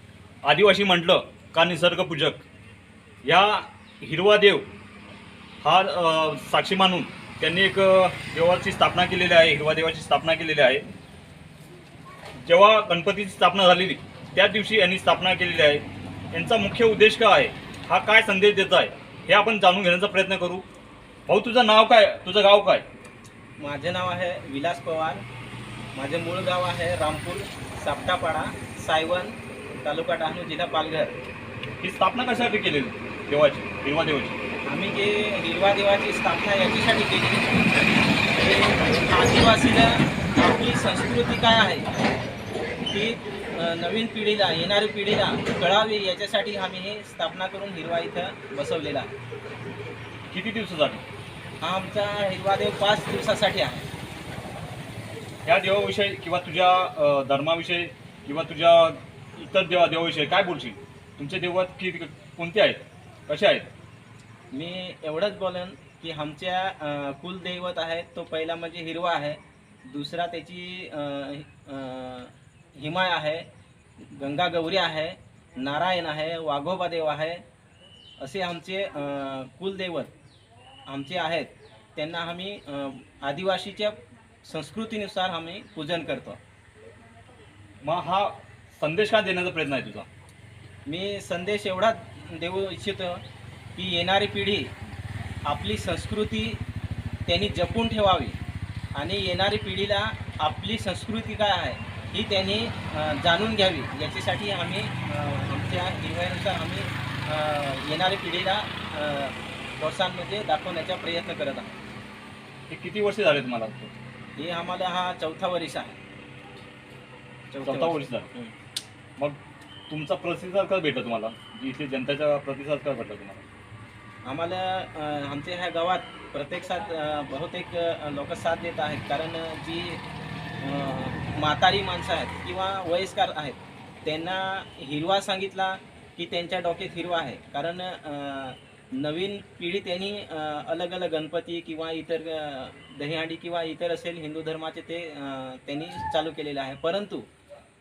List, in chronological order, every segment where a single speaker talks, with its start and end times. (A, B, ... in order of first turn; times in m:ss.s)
0:00.4-0:02.4 A
0:03.2-0:04.7 A
0:05.6-0:10.9 A
0:12.4-0:20.6 A
0:21.3-0:22.8 A
0:23.6-0:25.2 B
0:26.0-0:31.2 B
0:31.8-0:34.4 A
0:34.7-0:37.5 B
0:38.4-0:41.9 B
0:42.9-0:49.1 B
0:50.3-0:51.0 A
0:51.6-0:53.8 B
0:55.4-1:03.7 A
1:04.5-1:13.4 B
1:14.0-1:17.4 B
1:18.2-1:20.1 B
1:20.9-1:26.4 B
1:27.8-1:30.1 A
1:30.9-1:33.2 B
1:33.8-1:34.7 B
1:35.5-1:36.6 B
1:37.3-1:38.4 B
1:39.0-1:51.7 B
1:52.7-1:53.9 A
1:54.4-1:56.0 B
1:57.5-1:58.5 B
1:57.6-1:58.3 A
1:59.2-2:03.4 A
2:04.2-2:10.0 B
2:10.6-2:27.3 B